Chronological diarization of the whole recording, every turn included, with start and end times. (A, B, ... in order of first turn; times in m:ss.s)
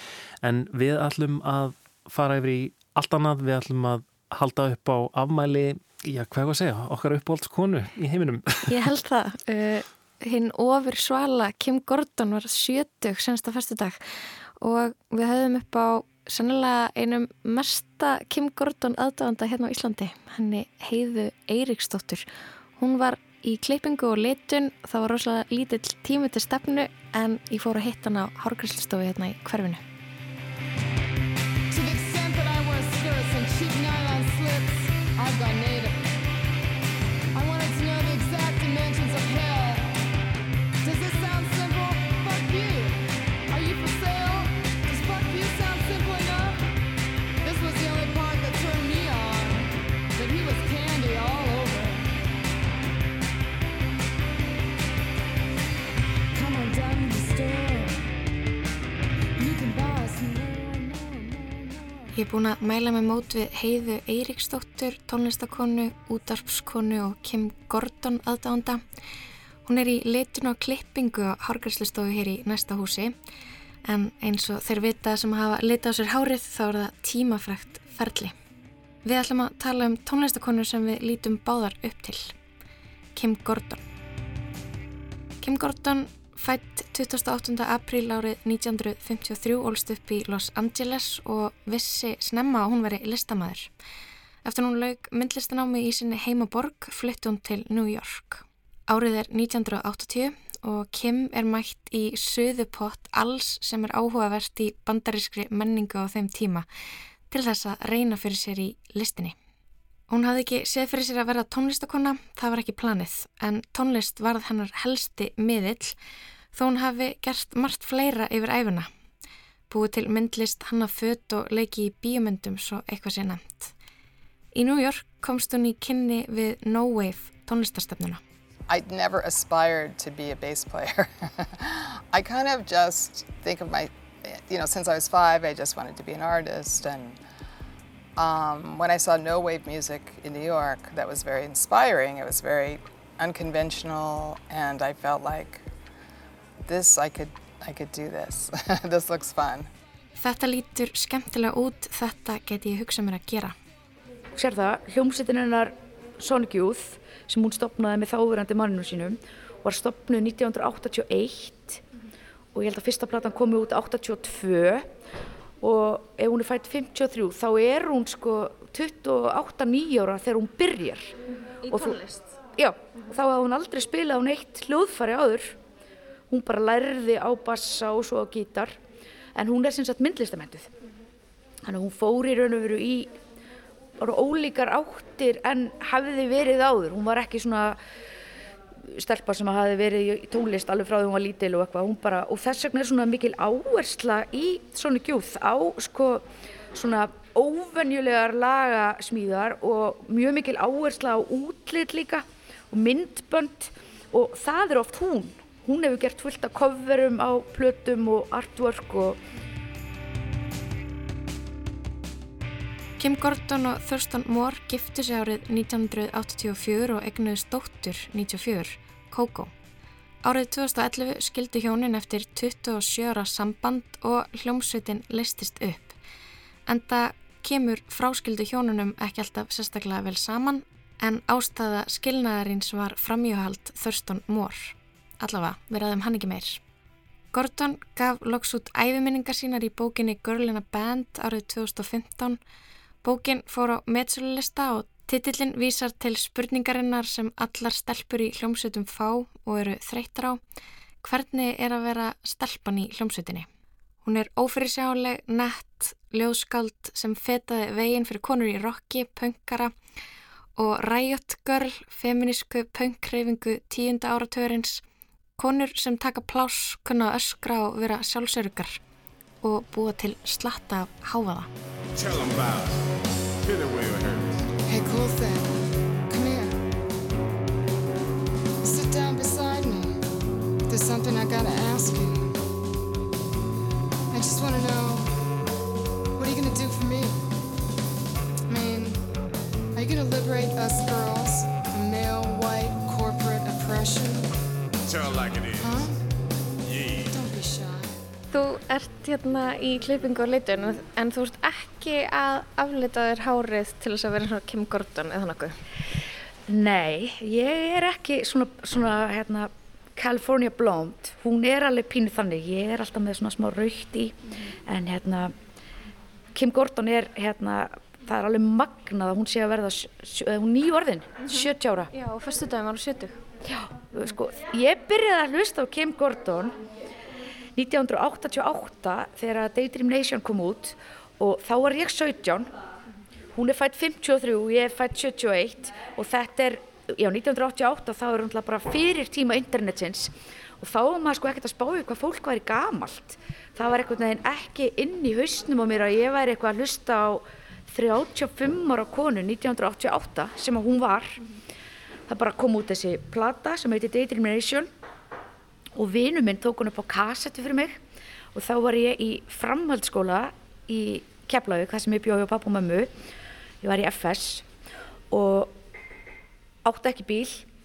0:00.4-0:08.8 A
0:08.7-0:14.0 B
0:14.6-0:29.8 B
0:31.7-0:36.0 C
0:37.3-0:40.0 C
0:40.8-0:46.7 C
0:47.4-0:52.1 C
0:56.3-0:58.0 C
0:59.4-1:02.1 C
1:02.1-1:08.8 B
1:09.6-1:13.1 B
1:13.8-1:18.3 B
1:19.0-1:22.3 B
1:23.1-1:23.8 B
1:25.4-1:33.7 B
1:34.4-1:46.7 B
1:47.3-1:49.3 B
1:50.1-1:56.0 B
1:56.5-1:58.9 B
1:59.7-2:03.7 B
2:04.5-2:08.2 B
2:08.7-2:17.2 D
2:18.1-2:25.6 D
2:26.6-2:29.7 D
2:30.2-2:33.5 B
2:34.4-2:41.8 E
2:42.5-2:44.9 E
2:45.6-2:51.1 E
2:51.6-2:52.4 B
2:51.7-2:52.0 E
2:52.6-2:55.6 E
2:56.3-2:58.7 E
2:59.3-3:00.7 E
3:01.6-3:03.1 E
3:04.0-3:07.8 E
3:08.9-3:29.2 E
3:33.0-3:39.5 B
3:40.2-3:46.0 B
3:46.6-3:56.6 B
3:57.3-4:02.4 B
4:03.0-4:10.4 B
4:11.0-4:13.5 B
4:14.0-4:19.7 B
4:20.6-4:24.8 B
4:25.4-4:28.8 B
4:29.4-4:31.5 B
4:31.9-4:32.8 F
4:33.4-4:34.4 F
4:34.6-4:36.6 C
4:38.6-4:40.0 C
4:40.7-4:42.4 C
4:44.1-4:45.0 C
4:46.2-4:47.2 C
4:48.5-4:49.0 C
4:49.7-4:54.3 C
4:54.8-4:55.7 F
4:55.6-4:56.0 C
4:56.6-4:57.1 F
4:57.1-4:57.9 C
4:58.3-5:05.6 B
5:06.5-5:15.3 E
5:16.3-5:21.9 E
5:21.3-5:23.2 B
5:23.4-5:26.6 E
5:27.5-5:32.5 E
5:33.3-5:51.2 E
5:52.1-5:54.7 E
5:55.8-5:57.8 E
5:58.3-6:02.9 E
6:03.6-6:04.4 E
6:05.1-6:05.5 E
6:06.6-6:07.4 E